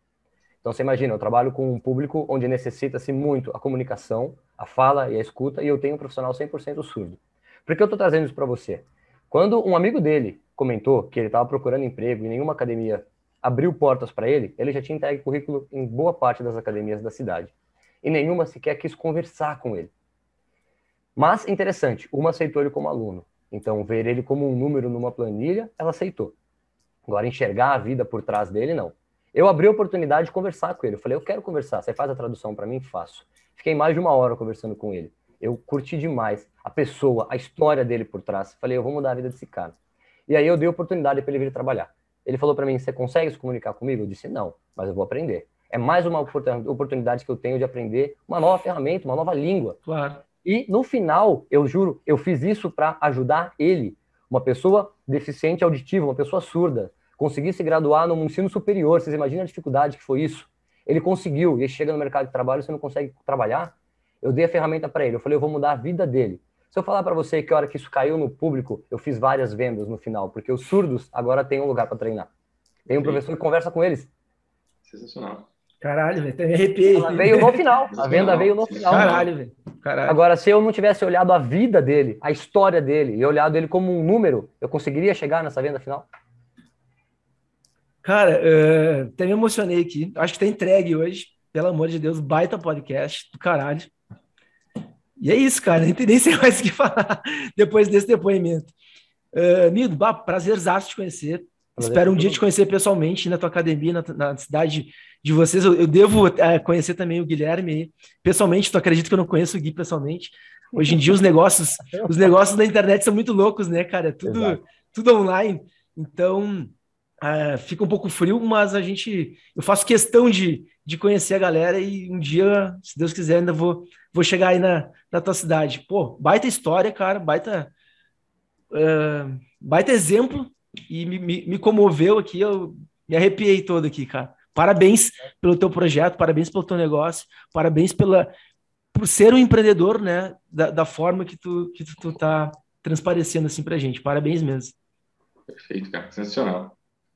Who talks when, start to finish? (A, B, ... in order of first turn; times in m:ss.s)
0:00.6-0:19.9 A
0:21.2-0:26.4 A
0:27.1-0:39.8 A
0:40.3-0:49.8 A
0:49.8-0:50.2 B
0:50.4-1:12.3 A
1:12.9-1:13.2 C
1:12.9-1:14.1 A
1:14.8-1:15.5 C
1:15.8-1:17.6 B
1:16.9-1:19.2 A
1:17.9-1:19.3 C
1:18.9-1:20.2 B
1:20.1-1:26.1 A
1:28.0-1:33.9 B
1:35.2-1:38.7 B
1:39.3-2:07.7 B
1:41.8-1:42.4 A
1:54.2-1:54.6 A
2:08.7-2:18.3 B
2:18.9-2:24.8 B
2:25.5-2:26.8 C